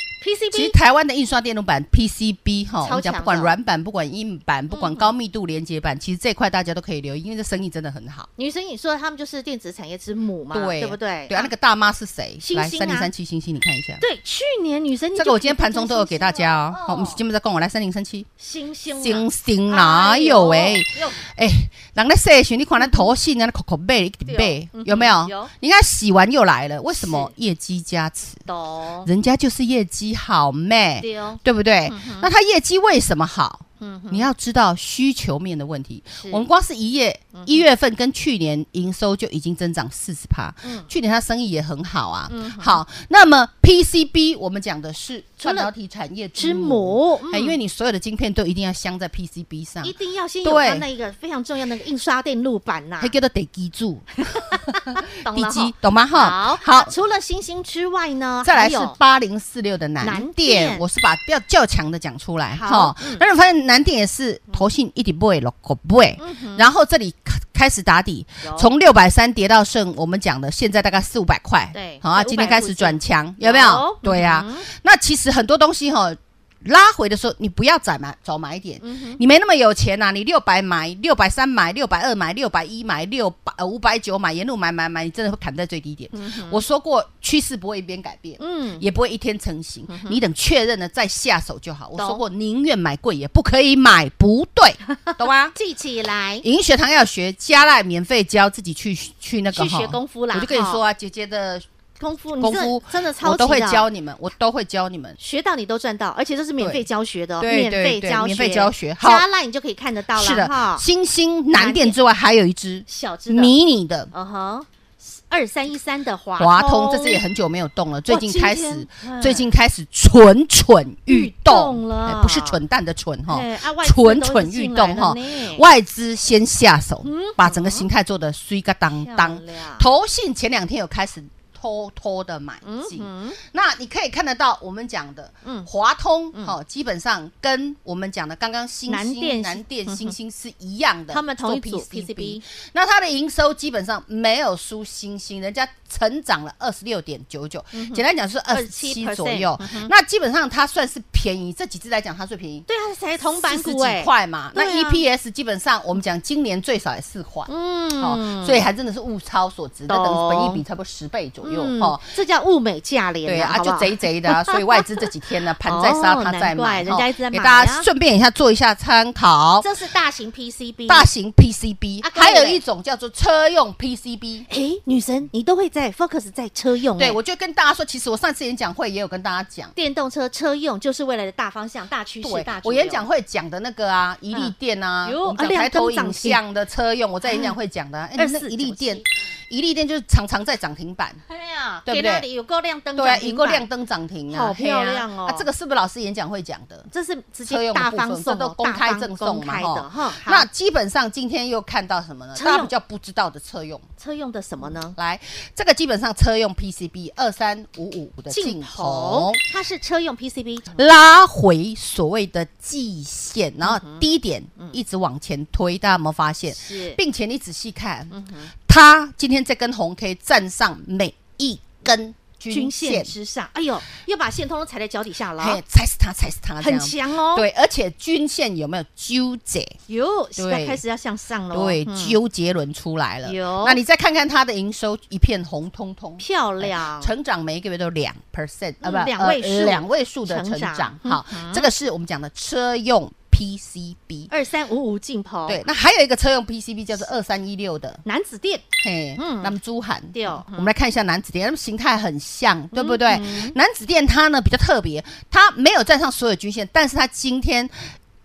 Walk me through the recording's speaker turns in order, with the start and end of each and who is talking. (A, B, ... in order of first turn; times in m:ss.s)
0:00.2-0:00.8 A
0:00.5-0:08.3 B
0:02.8-0:03.6 A
0:04.7-0:05.1 A
0:08.4-0:11.5 A
0:10.5-0:14.0 B
0:12.4-0:13.1 A
0:14.0-0:17.2 A
0:15.2-0:18.3 B
0:18.4-0:21.2 A
0:18.9-0:28.4 B
0:22.8-0:23.1 A
0:24.2-0:25.5 A
0:26.9-0:27.3 A
0:28.5-0:29.1 A
0:29.0-0:50.9 B
0:31.0-0:32.3 A
0:33.8-0:34.3 A
0:36.2-0:36.5 A
0:37.3-0:37.7 A
0:40.6-0:40.9 A
0:42.3-0:42.8 A
0:45.4-0:45.7 A
0:46.4-0:47.6 A
0:49.8-0:53.2 A
0:53.0-0:56.9 B
0:54.4-0:59.0 A
0:58.4-1:35.6 B
1:00.0-1:00.8 A
1:02.5-1:03.2 A
1:06.2-1:06.7 A
1:08.4-1:08.7 A
1:11.7-1:14.7 A
1:18.8-1:19.2 A
1:26.1-1:26.6 A
1:28.4-1:28.8 A
1:29.9-1:30.2 A
1:35.1-1:36.5 A
1:36.4-1:41.7 B
1:39.5-1:40.8 A
1:42.0-1:43.9 A
1:42.4-1:45.2 B
1:45.2-1:50.8 A
1:46.6-1:46.9 B
1:47.4-1:49.2 B
1:50.1-1:54.1 B
1:51.5-1:52.0 A
1:52.9-1:53.6 A
1:54.1-1:57.2 A
1:56.4-2:32.7 B
1:58.1-1:59.5 A
2:01.1-2:02.6 A
2:03.3-2:05.7 A
2:07.0-2:07.9 A
2:09.0-2:09.9 A
2:12.6-2:13.4 A
2:15.4-2:15.7 A
2:18.9-2:20.1 A
2:21.1-2:22.4 A
2:27.7-2:29.9 A
2:32.7-2:35.0 A
2:33.3-2:42.1 B
2:37.5-2:38.6 A
2:39.9-2:40.6 A
2:41.4-2:44.8 A
2:43.2-2:49.7 B
2:45.6-2:47.9 A
2:49.6-2:51.1 A
2:50.9-2:54.5 B
2:52.0-2:52.6 A
2:54.5-2:57.2 A
2:57.0-2:59.7 B
2:59.8-3:03.1 A
3:02.2-3:11.2 B
3:04.3-3:06.4 A
3:07.2-3:07.5 A
3:08.2-3:09.0 A
3:11.3-3:13.7 A
3:11.9-3:12.2 B
3:13.0-3:16.9 B
3:14.3-3:15.5 A
3:16.9-3:20.5 A
3:17.5-3:23.9 B
3:22.4-3:22.7 A
3:24.0-3:25.0 A
3:24.9-3:29.4 B
3:28.3-3:30.8 A
3:30.8-3:38.1 B
3:33.6-3:34.0 A
3:36.5-3:37.0 A
3:38.1-3:38.5 A
3:38.7-3:43.1 B
3:42.5-3:45.6 A
3:45.4-3:49.8 B
3:46.6-3:47.5 A
3:49.9-3:52.2 A
3:50.4-3:50.8 B
3:51.5-4:04.3 B
3:53.2-3:53.8 A
3:56.2-3:57.1 A
3:58.8-4:01.7 A
4:04.3-4:05.6 A
4:05.5-4:08.0 B
4:08.0-4:08.6 A
4:08.8-4:17.9 B
4:09.2-4:09.5 A
4:10.1-4:10.7 A
4:12.7-4:13.6 A